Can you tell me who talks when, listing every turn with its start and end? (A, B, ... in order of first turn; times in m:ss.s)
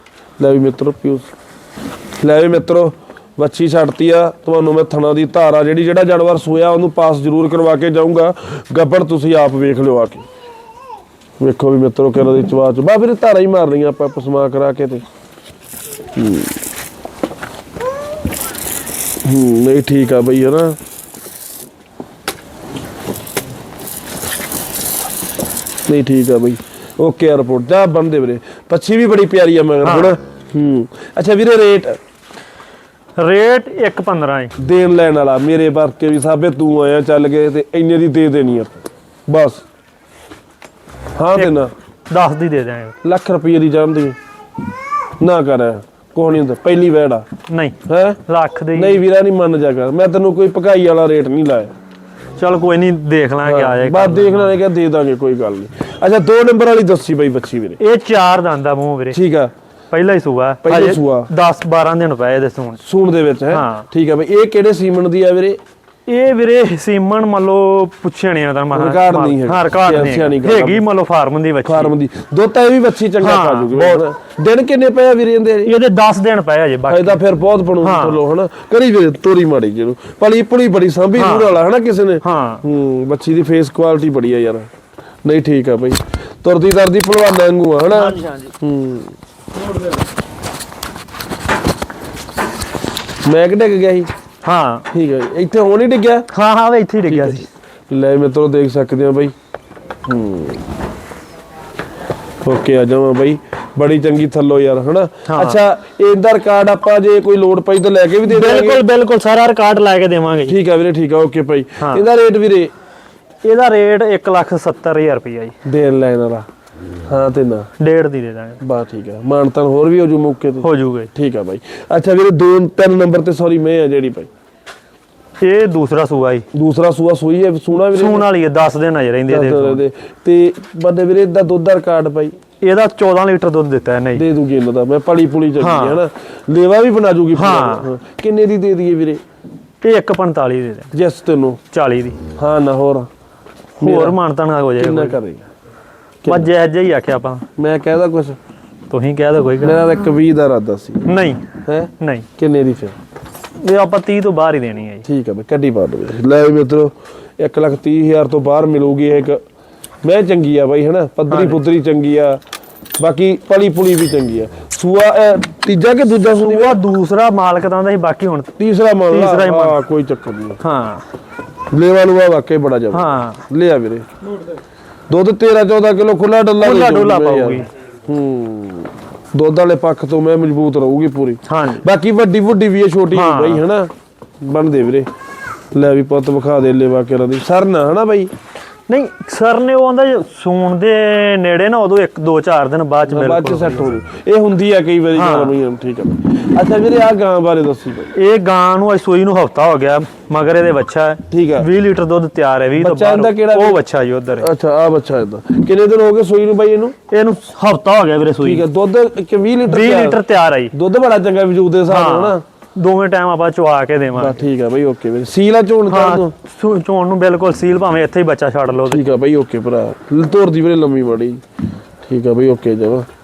0:00.4-0:01.3 A
0:02.2-0:10.2 A
0:11.4-0:15.0 A
0:16.2-0:16.6 A
0:19.2-0:20.8 A
0:25.9-0:32.0 A
0:29.8-0:30.2 B
0:33.2-0:34.5 B
0:34.6-0:39.6 A
0:41.2-0:41.7 A
0:42.1-0:42.9 B
0:43.0-0:44.2 A
0:45.2-0:47.2 A
0:47.5-0:47.7 B
0:47.9-0:48.2 A
0:48.3-0:49.0 B
0:48.7-0:51.7 A
0:52.4-0:54.6 B
0:53.4-0:57.8 A
0:57.8-0:59.2 B
0:59.1-0:59.5 A
0:59.9-1:02.8 B
1:00.6-1:01.3 A
1:02.8-1:05.6 A
1:03.5-1:03.8 B
1:06.1-1:11.9 B
1:08.7-1:10.8 A
1:11.6-1:15.7 A
1:13.2-1:14.0 B
1:15.6-1:17.2 B
1:16.9-1:24.7 A
1:17.8-1:18.2 B
1:21.2-1:21.5 B
1:22.2-1:22.6 B
1:25.2-1:29.1 A
1:27.9-1:28.5 B
1:33.2-1:34.1 A
1:34.4-1:34.9 B
1:34.9-1:36.3 A
1:36.3-1:37.5 B
1:37.1-1:39.3 A
1:40.1-1:40.6 A
1:42.4-1:48.8 A
1:45.3-1:45.6 B
1:48.2-1:50.6 B
1:50.5-1:52.7 A
1:51.8-1:52.0 B
1:53.4-1:55.5 B
1:55.6-1:56.4 A
1:57.1-1:57.7 A
1:57.8-1:58.6 B
1:58.6-2:04.3 A
2:00.6-2:01.1 B
2:05.4-2:06.4 B
2:06.5-2:08.3 A
2:07.7-2:09.8 B
2:09.3-2:12.3 A
2:12.6-2:14.2 B
2:14.1-2:19.2 A
2:15.6-2:16.0 B
2:17.3-2:17.9 B
2:19.8-2:20.9 B
2:20.9-2:21.6 A
2:21.7-2:22.2 B
2:22.3-2:23.1 A
2:23.8-2:24.2 A
2:23.8-2:25.2 B
2:24.8-2:25.5 A
2:26.2-2:26.5 A
2:26.2-2:27.4 B
2:27.6-2:28.4 A
2:28.9-2:29.9 B
2:29.6-2:31.1 A
2:31.0-2:31.4 B
2:31.6-2:33.0 A
2:32.0-2:32.2 B
2:33.6-2:35.0 B
2:35.0-2:39.4 A
2:40.0-2:42.4 A
2:41.3-2:41.6 B
2:43.0-2:46.8 A
2:46.3-2:48.5 B
2:48.6-2:50.6 A
2:49.1-2:49.8 B
2:50.6-2:51.0 B
2:51.7-2:54.1 A
2:52.9-2:53.4 B
2:55.1-3:03.9 A
2:56.6-2:57.7 B
3:01.5-3:01.8 B
3:03.1-3:03.6 B
3:04.4-3:05.1 A
3:05.7-3:08.3 A
3:08.9-3:14.0 B
3:13.1-3:18.1 A
3:15.1-3:15.5 B
3:18.1-3:24.5 B
3:21.3-3:21.7 A
3:22.8-3:23.8 A
3:24.4-3:26.9 A
3:27.1-3:28.6 B
3:28.4-3:30.2 A
3:29.7-3:30.7 B
3:30.7-3:32.4 A
3:31.9-3:34.4 B
3:34.1-3:36.3 A
3:35.9-3:39.0 B
3:38.8-3:41.4 A
3:42.0-3:43.0 A